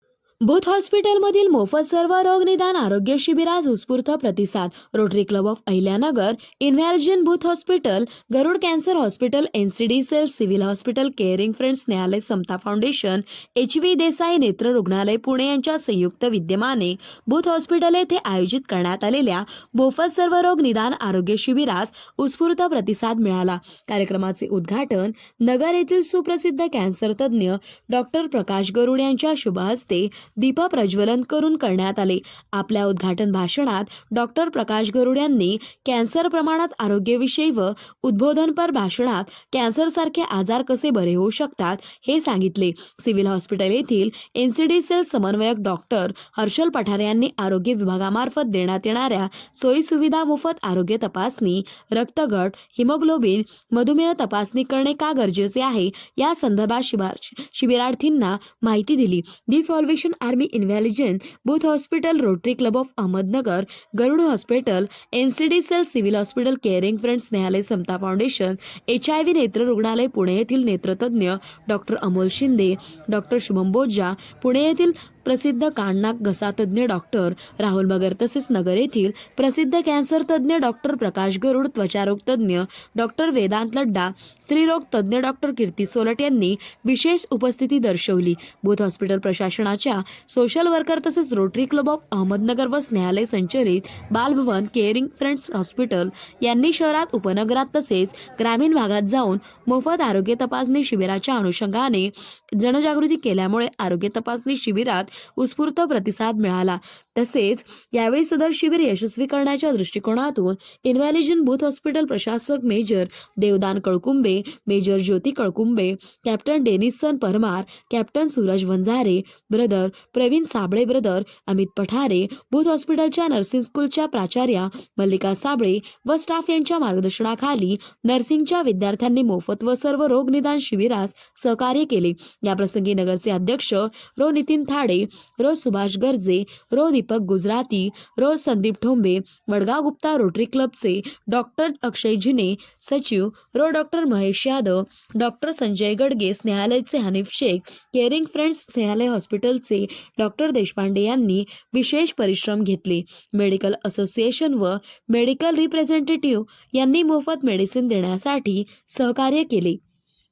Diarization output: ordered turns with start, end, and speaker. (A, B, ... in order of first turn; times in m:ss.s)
0:00.4-2:39.8 A